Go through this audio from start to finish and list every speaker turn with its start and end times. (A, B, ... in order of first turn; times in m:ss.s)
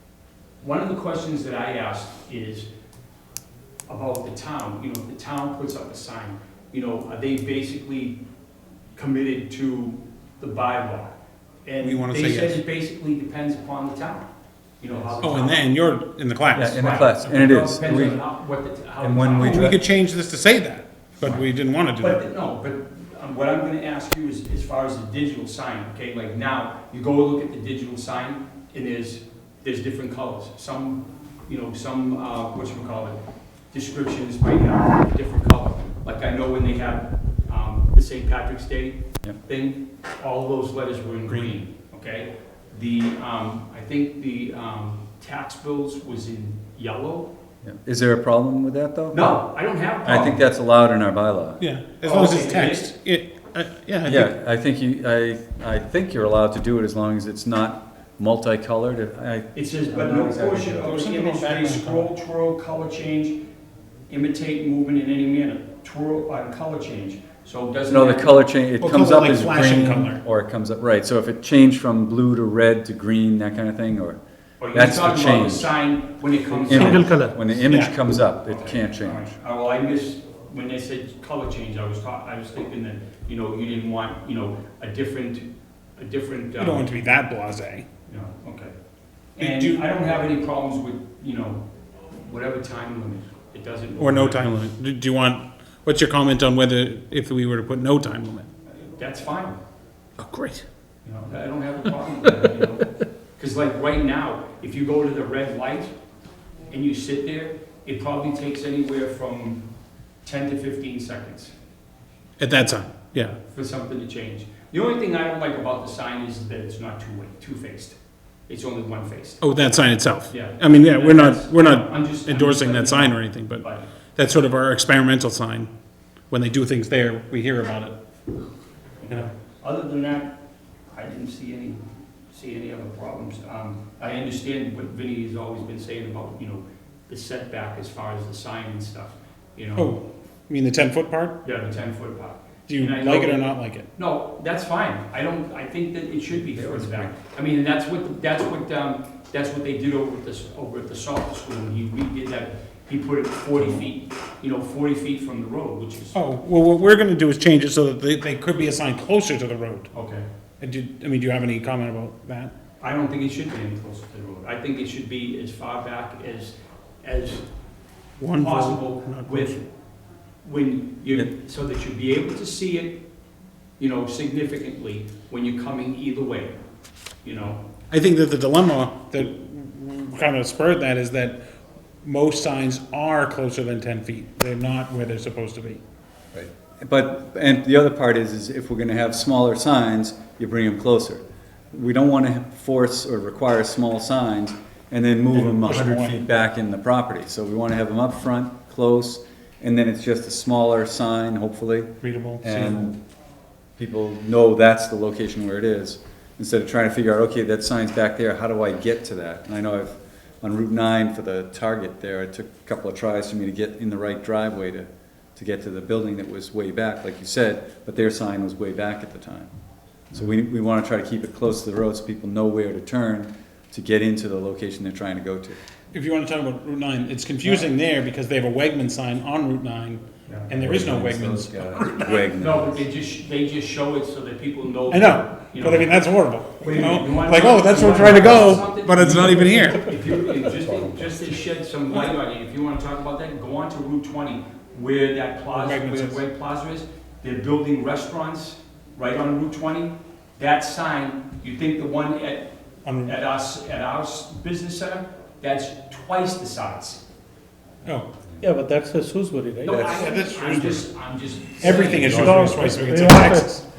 0:00.6-0:02.7 A
0:03.9-0:08.2 A
0:08.9-0:14.3 A
0:11.8-0:12.6 B
0:14.8-0:15.7 A
0:15.2-0:16.8 B
0:16.5-0:18.2 C
0:16.7-0:19.7 A
0:19.0-0:19.8 C
0:19.4-0:22.2 B
0:22.0-0:33.2 A
0:33.7-0:47.3 A
0:47.6-0:49.4 C
0:49.1-0:50.4 A
0:50.0-0:51.6 C
0:51.6-0:54.3 B
0:52.0-0:52.9 A
0:54.0-1:00.8 C
0:59.5-1:03.4 A
1:00.8-1:02.1 B
1:04.1-1:08.4 A
1:07.9-1:14.2 C
1:08.8-1:10.2 B
1:14.6-1:17.2 A
1:14.7-1:15.7 C
1:16.7-1:19.3 C
1:16.7-1:17.4 D
1:17.6-1:17.9 B
1:18.5-1:26.9 A
1:26.6-1:27.8 B
1:28.0-1:28.7 A
1:29.4-1:34.6 A
1:29.4-1:29.8 B
1:34.0-1:38.5 B
1:38.7-1:39.6 A
1:40.2-1:40.6 B
1:41.0-1:45.9 A
1:46.7-1:49.6 A
1:50.2-1:51.5 A
1:52.4-1:53.4 B
1:53.4-1:58.0 A
1:58.5-1:59.5 A
1:59.4-2:05.7 B
2:00.3-2:03.8 A
2:06.3-2:08.0 B
2:09.0-2:10.3 A
2:10.9-2:19.9 A
2:19.8-2:21.4 B
2:21.4-2:36.2 A
2:22.7-2:23.9 B
2:26.5-2:27.1 C
2:36.1-2:39.9 B
2:39.9-2:40.2 A
2:40.6-2:42.5 B
2:42.8-2:47.4 A
2:48.2-2:49.5 B
2:48.3-2:49.7 A
2:50.4-2:53.0 A
2:53.8-2:56.6 A
2:57.2-2:57.6 A
2:57.9-3:01.4 B
3:02.0-3:05.8 B
3:06.3-3:23.0 C
3:15.3-3:16.2 B
3:22.0-3:22.9 B
3:23.8-3:39.5 C
3:40.1-3:45.6 C
3:45.9-3:52.3 B
3:50.3-3:50.5 A
3:50.6-3:52.8 C
3:52.4-3:56.0 A
3:54.9-4:00.0 B
3:56.5-4:17.0 A
4:00.5-4:00.9 C
4:05.5-4:06.2 B
4:12.8-4:13.1 B
4:18.4-4:19.9 D
4:19.6-4:23.3 A
4:19.7-4:20.0 C
4:19.8-4:20.9 B
4:21.6-4:23.6 B
4:21.8-4:23.5 D